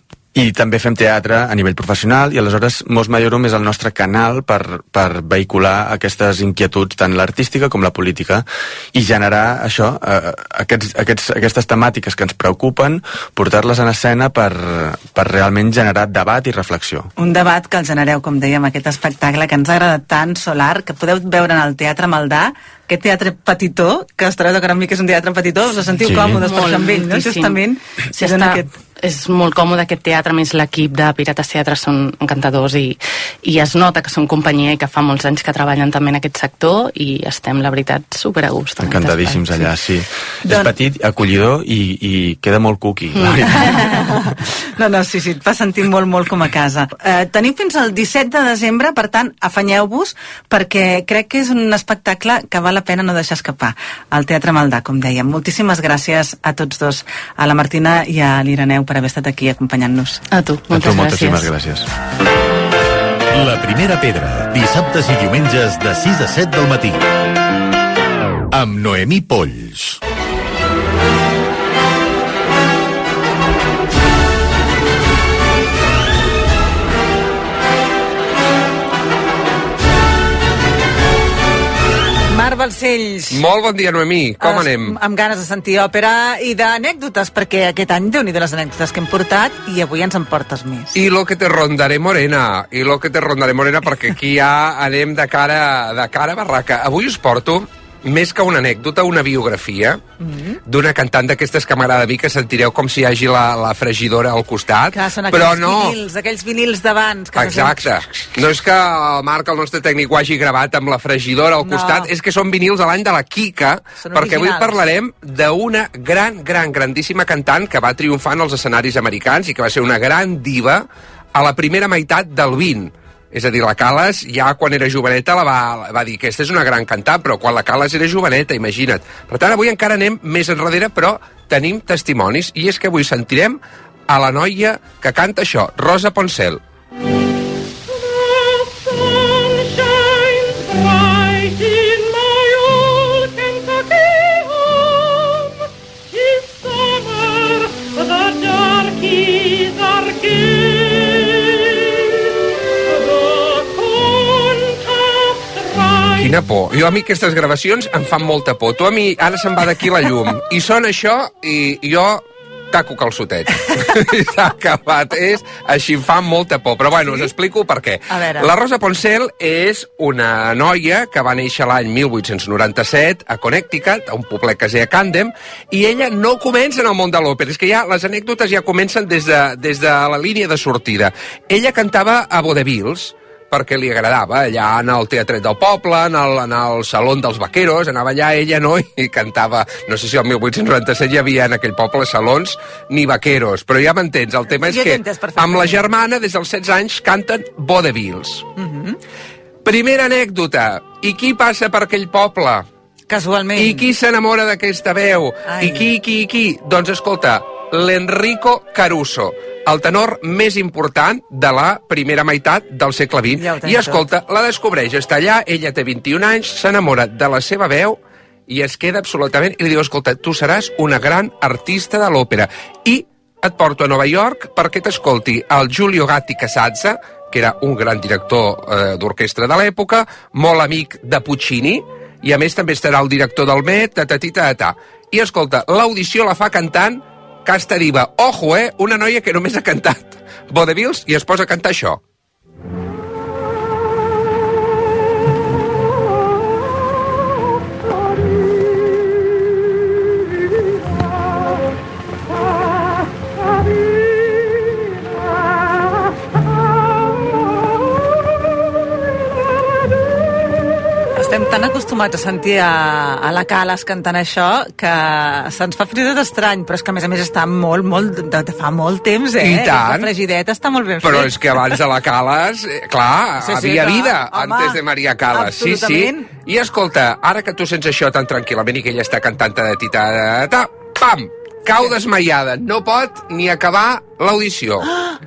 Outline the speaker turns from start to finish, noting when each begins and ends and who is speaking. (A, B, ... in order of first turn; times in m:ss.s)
0:00.4-0:17.1 A
0:17.2-0:28.7 B
0:26.1-0:26.4 A
0:26.4-0:27.6 C
0:28.2-0:39.7 C
0:38.8-0:44.2 A
0:40.5-0:40.7 B
0:43.2-0:43.6 C
0:43.6-0:44.2 B
0:44.8-1:00.2 B
1:00.3-1:01.5 C
1:00.7-1:01.9 A
1:03.3-1:07.0 D
1:08.5-1:10.0 D
1:22.3-1:23.4 B
1:23.3-1:25.0 E
1:24.4-1:31.0 B
1:30.9-1:40.0 E
1:40.2-1:40.6 B
1:40.7-1:46.0 E
1:44.9-1:48.0 B
1:47.4-2:16.6 E
1:51.6-1:52.1 B
1:54.0-1:54.8 B
2:36.1-3:18.4 E
2:47.0-2:47.3 B
2:48.1-2:48.5 B
3:14.6-3:15.8 B
3:18.6-3:19.0 B
3:19.6-3:22.7 E
3:23.1-3:23.9 B
3:23.6-4:02.0 E
3:25.5-3:25.9 B
3:33.4-3:34.0 B
4:21.2-4:31.6 B
4:29.4-4:30.1 E
4:31.0-4:44.9 E
4:33.4-4:34.8 B
4:35.3-4:36.3 B
4:44.9-4:45.2 B